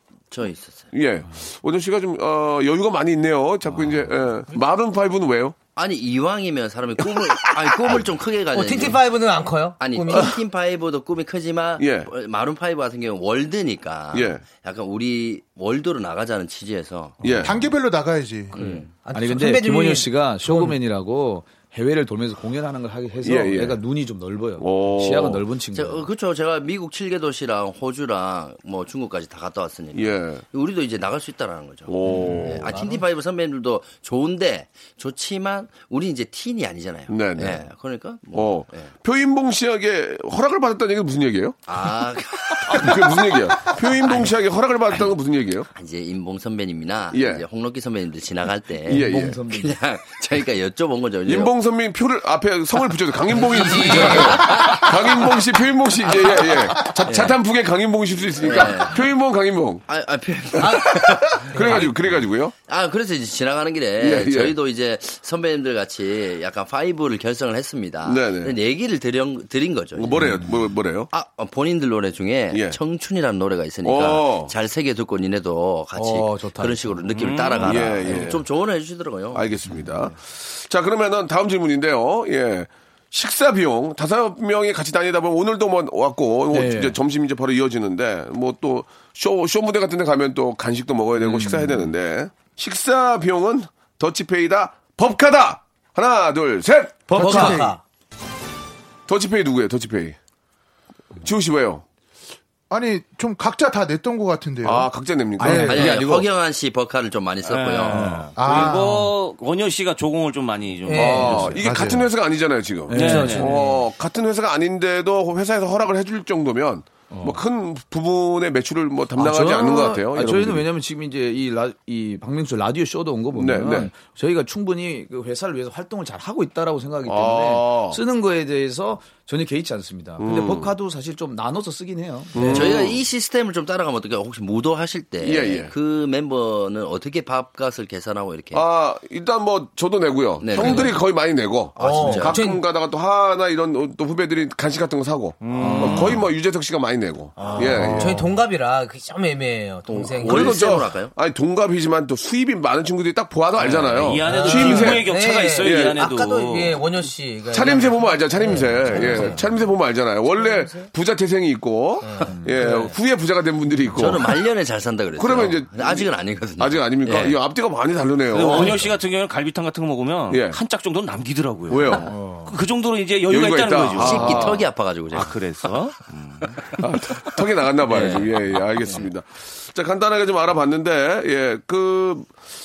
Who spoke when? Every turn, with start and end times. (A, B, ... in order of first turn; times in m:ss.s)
0:00.3-0:00.9 A
0:00.9-0:05.6 B
0:05.8-0:09.0 A
0:07.0-0:08.0 B
0:08.5-0:10.4 C
0:09.8-0:17.4 A
0:11.8-0:12.1 B
0:14.1-0:14.4 B
0:17.2-0:17.6 B
0:17.4-0:18.6 D
0:18.5-0:18.9 A
0:18.6-0:26.1 E
0:19.0-0:20.8 C
0:23.2-0:23.8 B
0:24.6-0:25.4 B
0:25.7-0:38.9 A
0:29.9-0:30.4 B
0:31.9-0:32.7 B
0:32.1-0:32.4 E
0:32.5-0:33.0 C
0:37.1-0:37.6 B
0:38.3-0:41.6 B
0:41.7-0:44.2 A
0:42.7-0:45.7 B
0:45.7-0:51.5 A
0:47.1-0:47.4 B
0:48.8-0:49.4 B
0:48.9-0:49.7 E
0:51.2-0:59.8 B
0:53.4-0:54.7 C
0:53.8-0:54.9 A
0:57.1-0:57.3 A
0:58.4-0:59.0 A
0:59.9-1:01.9 A
1:00.6-1:02.0 C
1:00.6-1:02.5 B
1:02.7-1:10.3 A
1:04.0-1:04.5 B
1:08.0-1:08.5 B
1:09.9-1:11.1 B
1:11.1-1:19.5 A
1:12.5-1:12.8 B
1:13.8-1:14.5 B
1:15.9-1:17.0 E
1:17.1-1:18.0 F
1:17.6-1:18.5 B
1:19.3-1:37.3 B
1:19.6-1:20.0 E
1:26.5-1:27.0 E
1:31.2-1:31.9 E
1:37.1-1:37.7 E
1:37.1-1:37.8 C
1:37.2-1:37.7 D
1:39.1-1:40.2 B
1:41.2-1:41.8 B
1:42.7-1:44.9 D
1:44.6-1:46.0 B
1:45.4-1:46.3 E
1:45.4-1:48.2 A
1:47.5-1:51.7 F
1:47.9-1:48.3 E
1:48.4-1:49.1 D
1:50.9-1:51.5 C
1:50.9-2:00.6 B
1:51.0-1:51.6 E
1:51.6-1:52.1 D
1:52.9-1:53.5 E
1:52.9-1:53.8 C
1:52.9-1:53.5 F
1:57.1-1:57.4 E
1:59.2-2:12.7 E
2:03.3-2:03.9 B
2:07.0-2:08.0 B
2:10.2-2:10.7 B
2:12.3-2:13.0 B
2:12.4-2:18.6 A
2:15.2-2:15.7 B
2:18.5-2:28.2 B
2:20.4-2:21.0 A
2:20.5-2:20.9 C
2:21.8-2:22.4 A
2:21.8-2:22.6 C
2:25.4-2:26.2 F
2:25.6-2:26.2 E
2:27.4-2:30.8 C
2:27.7-2:28.3 E
2:29.9-2:36.0 B
2:30.1-2:31.1 A
2:33.6-2:36.8 F
2:34.2-2:39.4 C
2:37.5-2:44.3 B
2:38.5-2:39.4 E
2:42.0-2:42.6 C
2:42.3-2:42.8 E
2:43.9-2:47.3 A
2:45.2-2:48.8 B
2:48.3-2:54.6 F
2:50.3-2:50.6 B
2:51.7-2:52.1 B
2:52.0-2:52.5 E
2:53.3-2:54.6 B
2:54.0-2:55.4 A
2:55.1-2:56.8 F
2:56.8-3:02.3 B